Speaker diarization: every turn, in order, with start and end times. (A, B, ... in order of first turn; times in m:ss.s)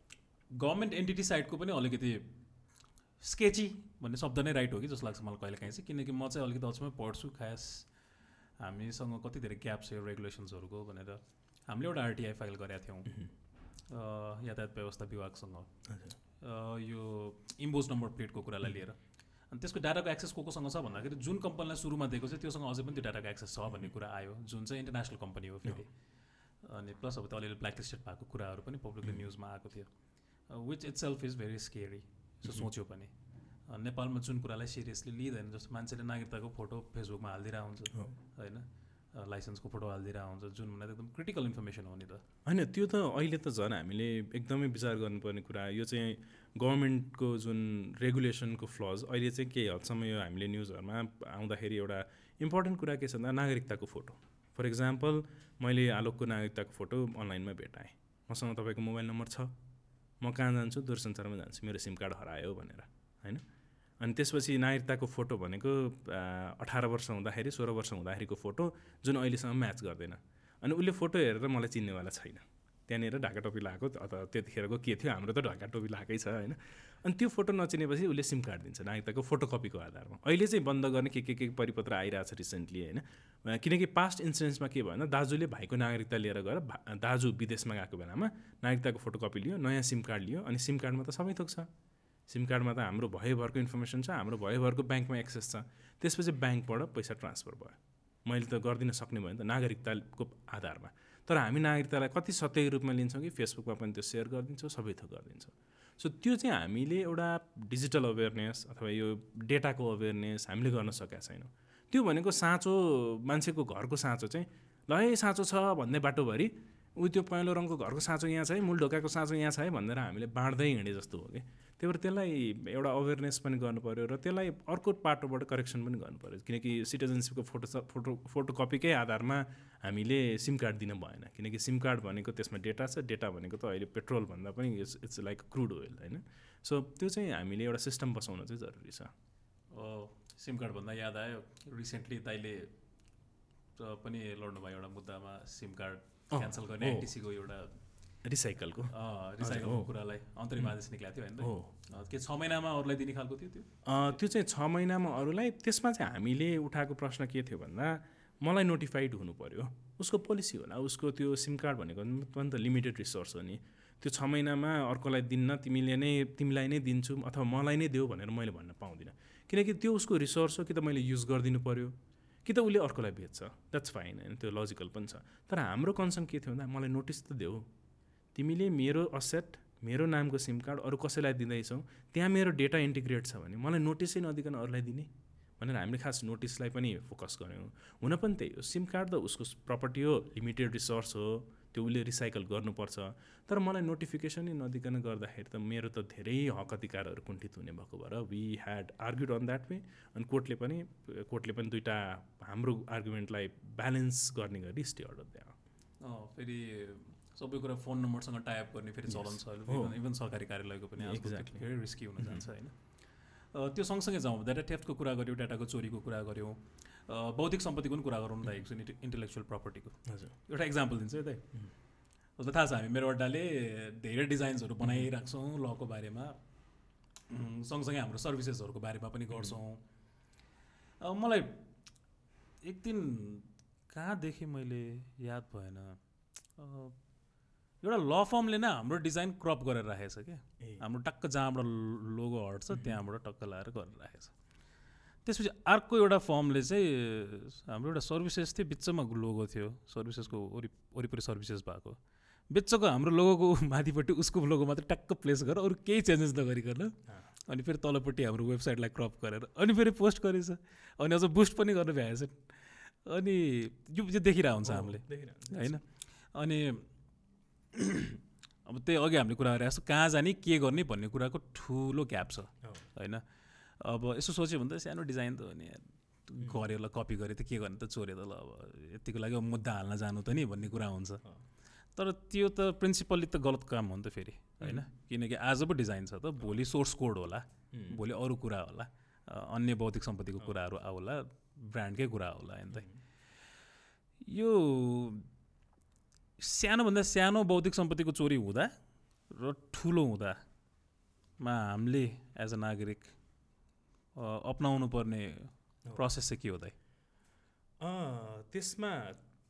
0:00.6-0:02.3 A
0:03.2-0:07.9 A
0:08.6-0:13.2 A
0:13.9-0:15.7 A
0:15.9-0:16.1 B
0:16.4-0:19.0 A
0:19.5-0:25.9 A
0:26.6-0:29.9 A
0:30.5-0:33.1 A
0:33.7-0:42.2 A
0:42.4-0:59.5 B
1:00.2-1:03.4 B
1:04.0-1:31.7 B
1:32.3-2:19.1 B
2:19.7-2:22.7 A
2:23.8-2:27.8 A
2:26.3-2:27.1 B
2:28.2-2:29.9 B
2:28.9-2:33.7 A
2:31.4-2:31.7 B
2:33.8-2:57.7 B
2:58.3-3:25.6 B
3:26.0-3:32.8 A
3:29.1-3:30.0 B
3:31.0-3:31.6 B
3:32.2-3:32.4 B
3:33.5-3:41.4 A
3:40.1-3:40.3 B
3:42.4-3:46.4 A
3:44.8-3:45.1 B
3:47.3-3:49.8 A
3:51.0-3:51.6 A
3:52.6-3:56.0 A
3:56.6-3:57.0 A
3:57.8-4:04.3 A
4:02.7-4:03.0 B
4:05.2-4:12.0 A
4:12.5-4:17.0 A
4:17.5-4:26.9 A
4:24.6-4:25.8 B
4:27.7-4:33.2 A
4:33.8-4:41.2 A
4:41.9-4:52.8 A
4:47.7-4:48.0 B
4:54.2-4:55.3 A
4:56.4-4:58.7 A
4:59.3-5:00.4 A
5:01.4-5:03.1 A
5:04.2-5:06.7 A
5:07.8-5:09.2 B